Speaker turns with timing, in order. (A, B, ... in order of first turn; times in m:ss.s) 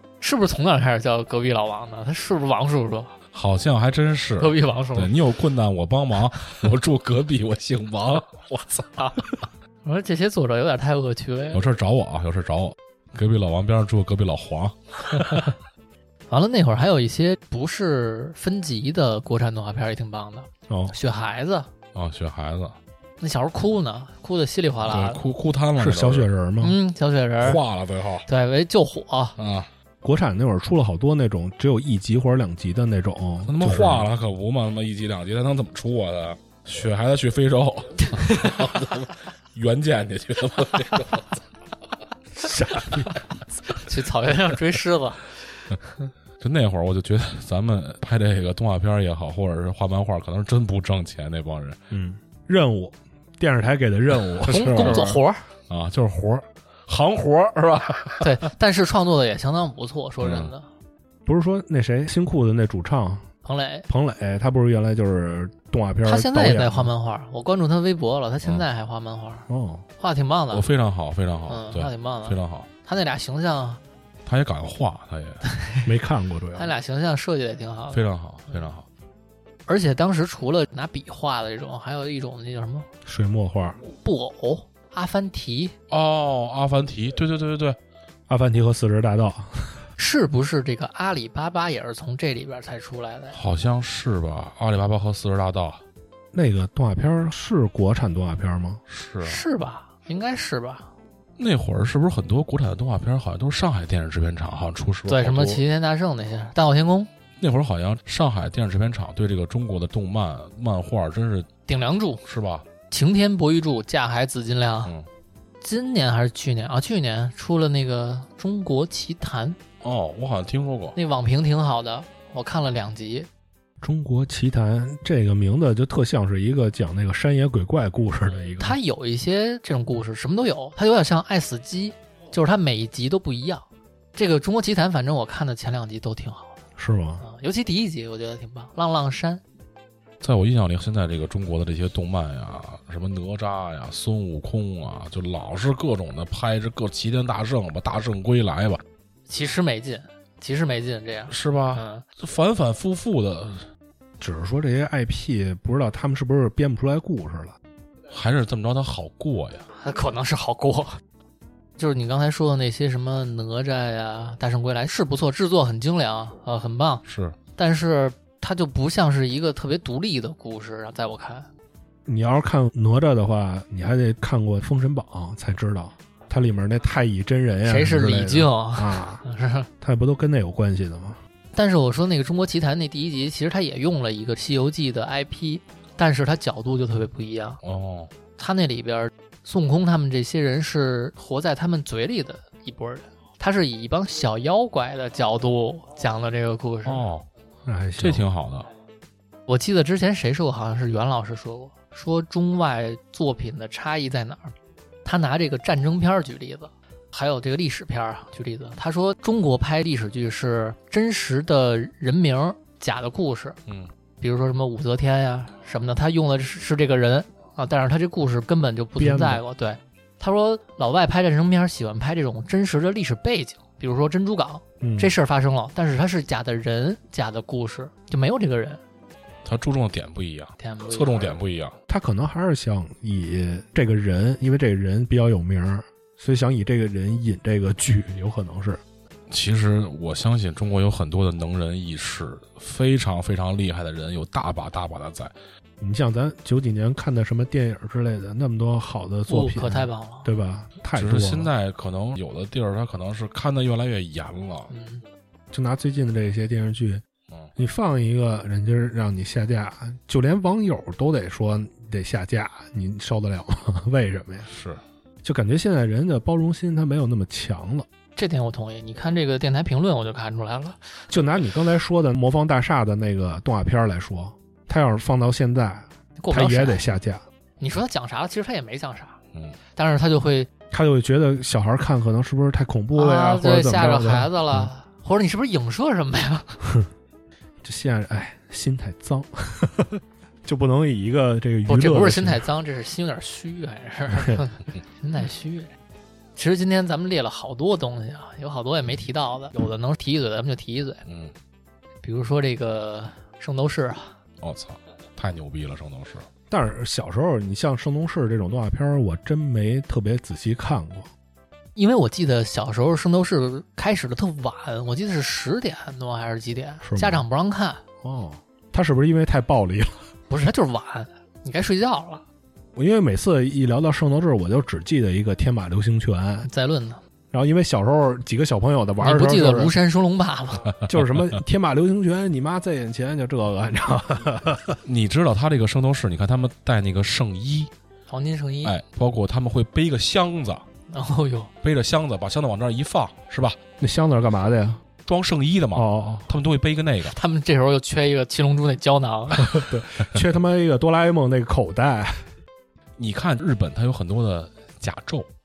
0:00.2-0:03.1 A
0:03.3-0:09.3 B
0:04.4-0:05.1 A
0:09.8-0:11.6 A
0:11.5-0:15.5 B
0:16.3-0:21.7 A
0:20.7-0:20.9 C
0:21.9-0:22.7 B
0:23.2-0:25.2 A
0:24.8-0:26.3 B
0:25.8-0:26.8 C
0:26.6-0:27.6 A
0:27.4-0:28.2 B
0:28.3-0:29.3 A
0:29.4-0:29.7 B
0:30.0-0:34.1 C
0:33.5-0:41.4 B
0:43.8-0:45.3 A
0:46.4-0:51.8 B
0:51.9-0:55.1 C
0:54.4-0:55.2 B
0:54.5-0:55.4 A
0:55.7-0:58.2 B
0:58.2-1:00.7 A
1:00.2-1:00.5 B
1:01.2-1:03.3 C
1:03.4-1:03.9 A
1:03.9-1:06.9 C
1:06.0-1:09.4 A
1:09.5-1:09.8 C
1:10.0-1:10.6 A
1:10.5-1:12.7 B
1:11.5-1:13.8 A
1:14.2-1:15.4 B
1:15.8-1:16.7 C
1:16.6-1:18.0 A
1:17.9-1:18.8 B
1:19.7-1:22.9 A
1:23.0-1:23.8 C
1:24.0-1:25.7 A
1:25.9-1:27.8 B
1:28.3-1:29.8 C
1:30.0-1:33.3 A
1:33.3-1:35.8 B
1:36.3-1:38.8 C
1:38.9-1:39.4 B
1:39.2-1:40.9 A
1:41.4-1:45.6 B
1:45.1-1:47.1 A
1:47.4-1:51.5 B
1:51.7-1:52.2 A
1:52.2-1:52.6 B
1:52.9-1:54.9 A
1:55.6-1:59.6 A
1:59.8-2:01.0 B
2:00.9-2:03.3 A
2:03.8-2:08.8 C
2:08.6-2:13.6 A
2:14.2-2:16.6 A
2:16.8-2:17.2 C
2:17.2-2:19.4 A
2:20.2-2:28.8 B
2:29.3-2:32.0 A
2:31.3-2:33.6 B
2:34.2-2:37.6 C
2:38.1-2:39.7 B
2:39.8-2:41.0 A
2:41.8-2:47.0 A
2:47.0-2:47.4 B
2:47.6-2:51.5 A
2:52.0-2:59.2 C
2:57.6-2:59.7 A
2:59.8-3:01.2 C
3:01.5-3:07.6 A
3:07.6-3:08.1 B
3:08.4-3:17.0 A
3:16.8-3:17.2 B
3:17.6-3:18.3 C
3:18.0-3:18.7 B
3:19.5-3:24.5 A
3:25.0-3:33.6 A
3:34.2-3:48.8 A
3:39.0-3:39.4 C
3:44.8-3:45.1 C
3:49.4-3:51.7 B
3:50.6-3:51.3 A
3:51.9-3:58.8 C
3:59.3-4:05.3 B
4:05.8-4:11.5 C
4:09.3-4:10.3 A
4:10.9-4:14.7 B
4:14.7-4:15.0 A
4:15.5-4:17.0 C
4:17.6-4:24.5 C
4:24.5-4:24.8 B
4:25.2-4:27.9 C
4:28.2-4:30.8 A
4:31.1-4:37.2 C
4:36.2-4:36.8 A
4:37.6-4:39.2 A
4:39.7-4:40.5 A
4:40.7-4:44.7 C
4:42.9-4:46.6 A
4:47.6-4:52.4 C
4:51.7-4:55.7 A
4:56.4-5:01.0 A
5:01.0-5:01.3 B
5:02.0-5:04.1 A
5:04.4-5:06.2 B
5:06.5-5:11.1 C
5:11.8-5:17.8 A
5:16.8-5:17.2 C
5:18.0-5:20.0 C
5:20.3-5:22.2 A
5:22.8-5:26.5 C
5:26.4-5:27.0 A
5:27.3-5:29.7 C
5:29.0-5:30.7 A
5:30.8-5:34.8 C
5:34.8-5:37.7 B
5:38.1-5:38.8 A
5:38.6-5:40.6 B
5:40.9-5:41.5 A
5:41.6-5:43.6 B
5:43.8-5:44.8 C
5:45.0-5:47.2 B
5:45.7-5:46.3 C
5:47.1-5:49.5 A
5:49.4-5:52.2 C
5:53.0-5:55.3 B